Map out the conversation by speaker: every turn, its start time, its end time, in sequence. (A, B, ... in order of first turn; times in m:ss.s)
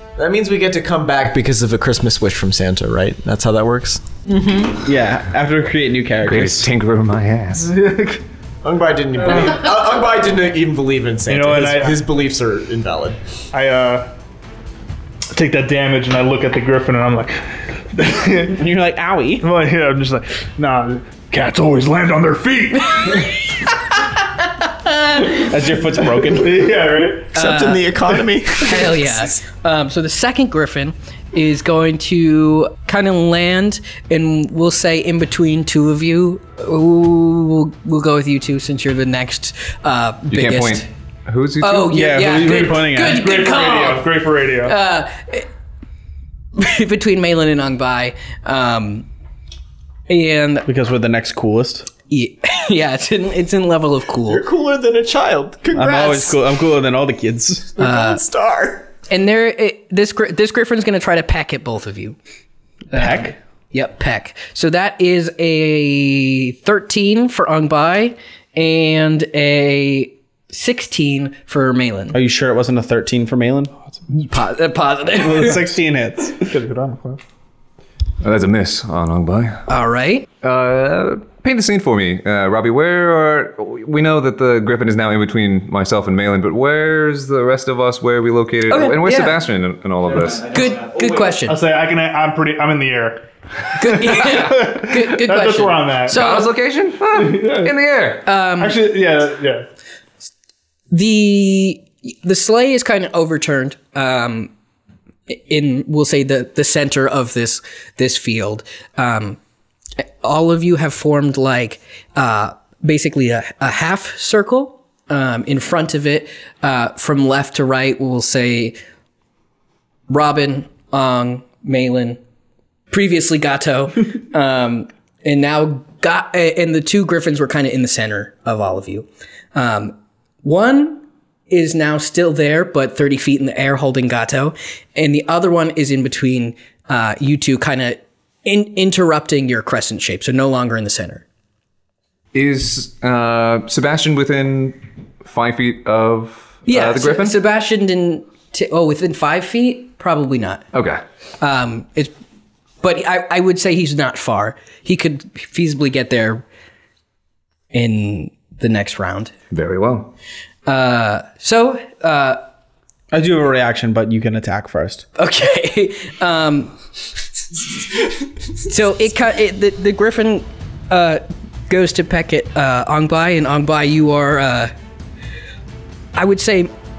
0:00.2-0:04.0 A
0:04.3-0:04.8 B
0:04.7-0:06.7 C
0:06.3-0:07.7 D
0:07.6-0:08.2 E
0:08.6-0:13.2 A
0:11.3-0:12.1 E
0:13.5-0:14.1 E
0:15.3-0:17.4 E
0:17.9-0:18.6 E
0:18.5-0:19.5 C
0:19.4-0:23.4 E
0:24.6-0:25.4 B
0:25.2-0:26.7 C
0:26.2-0:27.4 E
0:27.4-0:28.0 B
0:27.4-0:29.4 A
0:28.6-0:40.9 B
0:40.3-0:42.1 D
0:41.6-0:44.1 B
0:41.9-0:43.3 C
0:43.0-0:44.8 E
0:44.6-0:45.5 B
0:46.6-0:49.1 B
0:50.1-0:50.7 B
0:50.7-0:51.9 C
0:52.1-0:54.4 B
0:54.3-0:56.4 A
0:55.7-0:57.8 C
0:57.8-0:58.9 A
0:57.8-0:58.2 B
0:59.1-1:02.2 B
1:02.9-1:03.4 C
1:02.9-1:12.2 B
1:12.1-1:13.7 C
1:14.1-1:15.7 B
1:15.2-1:16.6 C
1:16.4-1:17.2 E
1:18.2-1:19.6 D
1:19.7-1:20.3 B
1:20.4-1:30.6 D
1:28.7-1:29.4 B
1:30.4-1:31.6 B
1:31.5-1:33.2 E
1:33.8-1:36.5 B
1:33.8-1:36.2 E
1:36.1-1:38.2 D
1:37.1-1:37.7 E
1:38.2-1:38.8 B
1:38.6-1:39.7 E
1:40.9-1:44.5 B
1:45.3-1:49.4 B
1:50.2-1:58.8 B
2:00.1-2:02.2 B
2:02.9-2:21.2 B
2:22.3-2:27.4 D
2:26.7-2:30.6 B
2:30.7-2:31.0 D
2:31.4-2:32.1 B
2:32.8-2:36.4 B
2:37.7-2:39.3 B
2:39.5-2:40.1 D
2:40.7-2:42.4 B
2:43.1-2:45.1 C
2:45.2-2:46.8 B
2:48.6-2:54.7 B
2:56.2-2:56.7 B